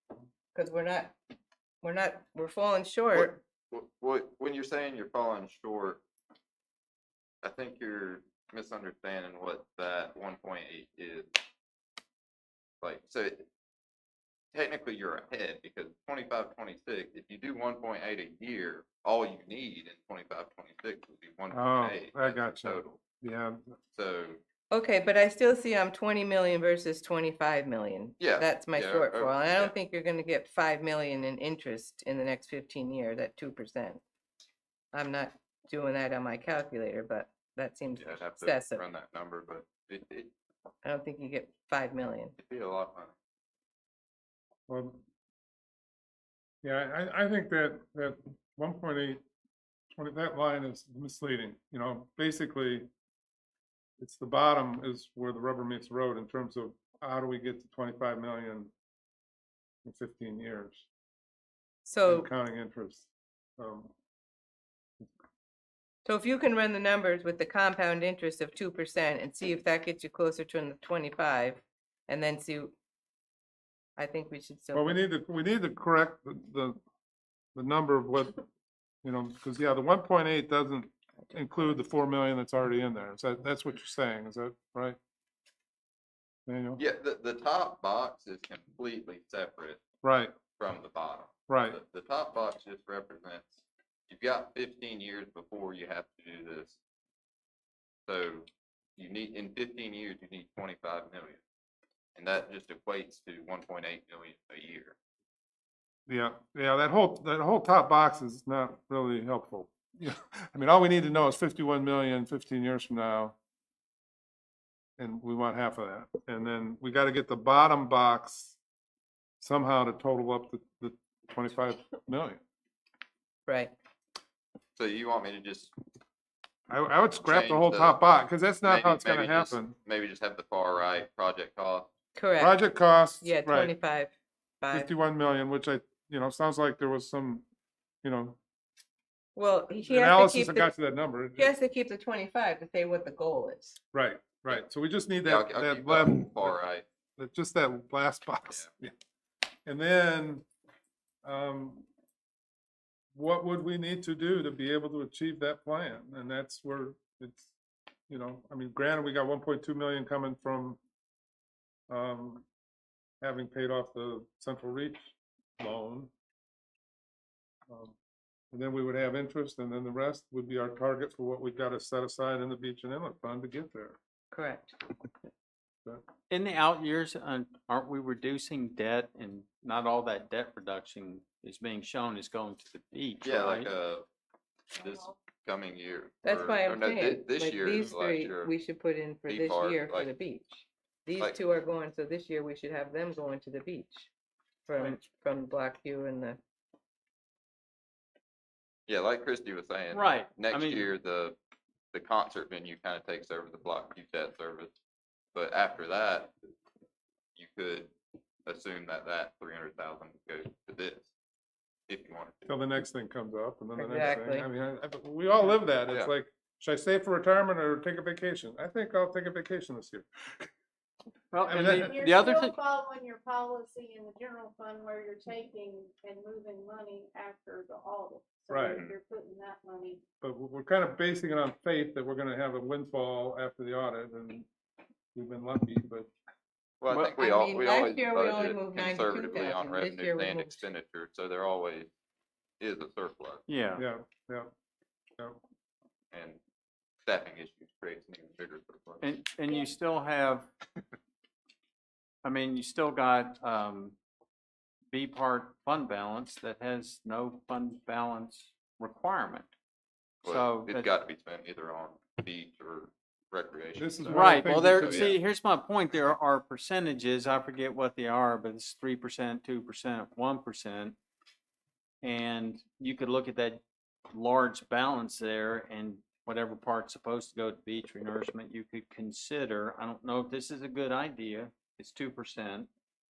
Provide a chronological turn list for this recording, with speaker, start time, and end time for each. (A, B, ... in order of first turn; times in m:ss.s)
0:00.5-0:01.2 A
0:01.8-0:03.4 A
0:03.1-0:06.0 B
0:07.4-0:11.3 B
0:12.8-0:13.4 B
0:14.5-0:23.0 B
0:21.5-0:23.8 C
0:23.9-0:24.4 B
0:24.7-0:34.0 A
0:28.2-0:29.8 B
0:34.9-0:38.8 A
0:38.0-0:40.3 B
0:40.8-0:42.4 A
0:42.4-0:43.1 B
0:44.7-0:45.0 C
0:46.6-0:49.2 C
0:50.0-0:52.9 C
0:54.0-0:58.7 C
0:59.8-1:00.9 C
1:01.8-1:02.3 A
1:02.1-1:03.9 C
1:06.1-1:12.7 A
1:14.0-1:15.0 A
1:14.7-1:16.8 C
1:17.6-1:18.4 C
1:19.0-1:25.0 C
1:21.3-1:21.7 A
1:26.5-1:26.8 C
1:26.8-1:29.8 B
1:30.0-1:30.4 C
1:30.6-1:36.8 B
1:31.5-1:31.8 C
1:38.1-1:41.4 B
1:42.2-1:45.0 B
1:46.1-1:53.4 C
1:55.0-1:58.6 C
1:59.4-2:02.4 C
2:03.5-2:03.7 A
2:04.8-2:05.7 B
2:06.7-2:09.8 C
2:07.1-2:08.0 B
2:08.6-2:11.9 B
2:12.2-2:12.6 A
2:12.4-2:13.7 C
2:13.2-2:14.9 A
2:14.7-2:17.4 C
2:18.0-2:18.4 C
2:19.4-2:20.7 A
2:19.8-2:21.5 C
2:21.4-2:23.8 A
2:23.9-2:26.6 C
2:25.2-2:26.8 B
2:27.2-2:28.9 C
2:29.7-2:30.4 C
2:31.2-2:31.9 C
2:33.2-2:37.5 C
2:38.1-2:40.8 C
2:41.9-2:42.5 C
2:43.2-2:46.1 C
2:47.7-2:48.0 C
2:48.5-2:54.0 C
2:54.3-2:54.8 A
2:56.3-3:03.7 D
3:03.2-3:04.1 B
3:04.7-3:08.5 B
3:06.2-3:14.1 A
3:09.3-3:10.1 B
3:14.7-3:16.4 A
3:18.9-3:21.4 B
3:19.9-3:20.9 D
3:21.9-3:24.7 B
3:25.4-3:26.3 B
3:27.4-3:27.9 B
3:28.5-3:31.1 B
3:31.9-3:32.4 B
3:32.5-3:40.5 C
3:33.8-3:34.5 A
3:41.3-3:42.6 D
3:41.4-3:42.0 C
3:41.5-3:50.0 E
3:48.5-3:48.8 C
3:48.7-3:48.9 B
3:50.2-3:54.4 C
3:55.2-3:56.1 C
3:56.8-4:01.9 B
3:56.9-4:00.6 A
4:02.6-4:03.4 B
4:03.5-4:03.8 D
4:03.8-4:04.5 C
4:06.1-4:06.4 B
4:07.1-4:09.1 B
4:09.0-4:10.5 D
4:12.2-4:14.0 D
4:14.9-4:19.5 D
4:20.2-4:25.2 B
4:20.3-4:20.9 D
4:23.8-4:25.1 C
4:24.1-4:31.0 D
4:32.0-4:42.7 D